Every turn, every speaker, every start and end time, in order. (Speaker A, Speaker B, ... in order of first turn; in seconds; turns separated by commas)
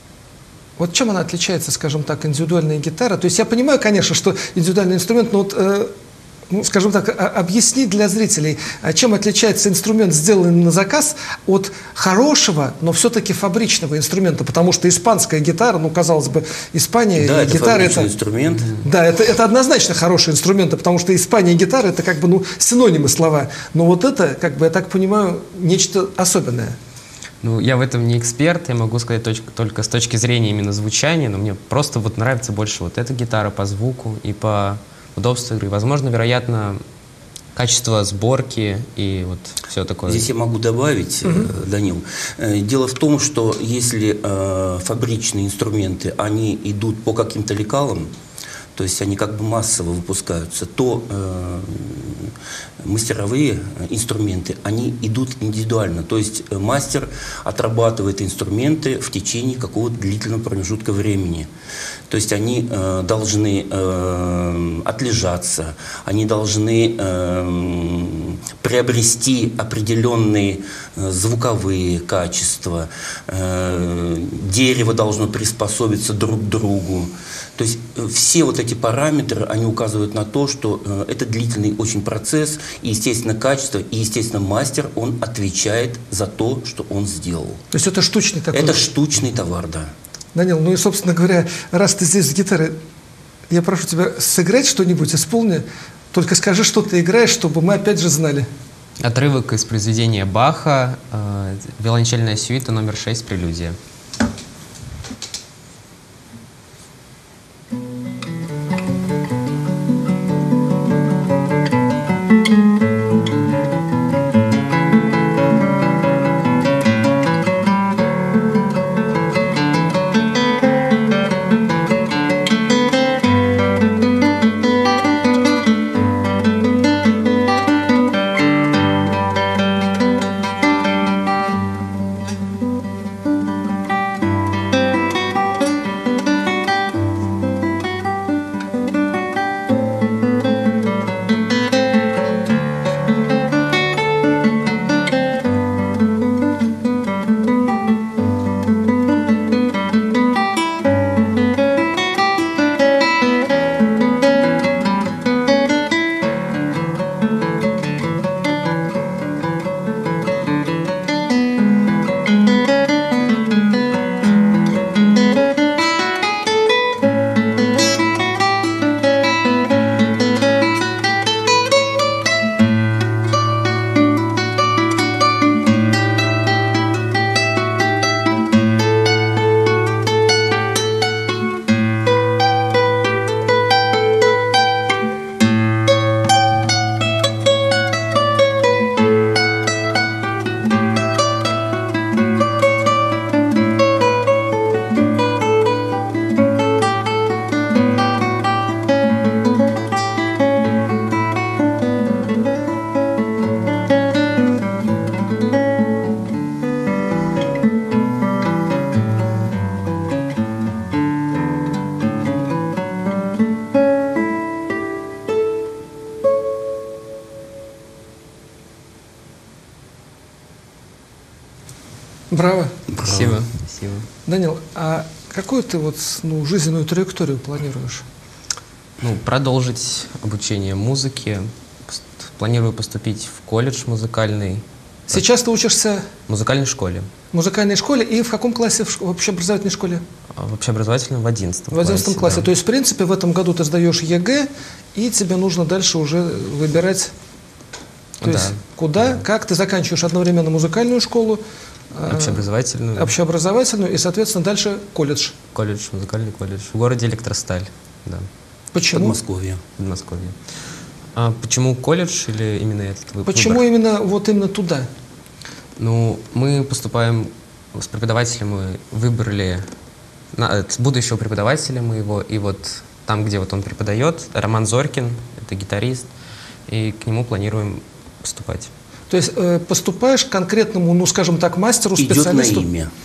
Speaker A: 0.8-5.9, Speaker A: 6.5-18.1, Speaker B: 17.1-18.7, Speaker C: 18.6-18.9, Speaker A: 18.8-26.8, Speaker C: 27.4-36.8, Speaker C: 37.5-40.3, Speaker B: 40.1-48.1, Speaker A: 41.2-41.5, Speaker B: 48.8-61.5, Speaker B: 62.1-87.6, Speaker A: 87.7-88.9, Speaker B: 88.5-89.9, Speaker A: 90.3-92.8, Speaker A: 93.5-98.5, Speaker C: 99.0-103.8, Speaker A: 222.3-222.7, Speaker B: 222.9-223.4, Speaker C: 223.0-224.1, Speaker A: 224.3-228.1, Speaker C: 229.0-235.2, Speaker A: 235.1-236.1, Speaker C: 236.3-237.1, Speaker A: 237.3-240.0, Speaker C: 240.4-242.5, Speaker A: 241.7-247.1, Speaker C: 248.2-249.2, Speaker A: 248.2-251.4, Speaker A: 251.9-252.4, Speaker C: 252.1-253.1, Speaker A: 252.9-255.4, Speaker C: 255.5-258.3, Speaker A: 258.7-259.2, Speaker B: 258.9-259.6, Speaker C: 259.8-260.4, Speaker C: 261.1-263.6, Speaker A: 263.3-264.9, Speaker C: 265.8-269.7, Speaker C: 270.4-276.1, Speaker C: 276.7-278.7, Speaker A: 279.1-282.7, Speaker B: 282.0-282.9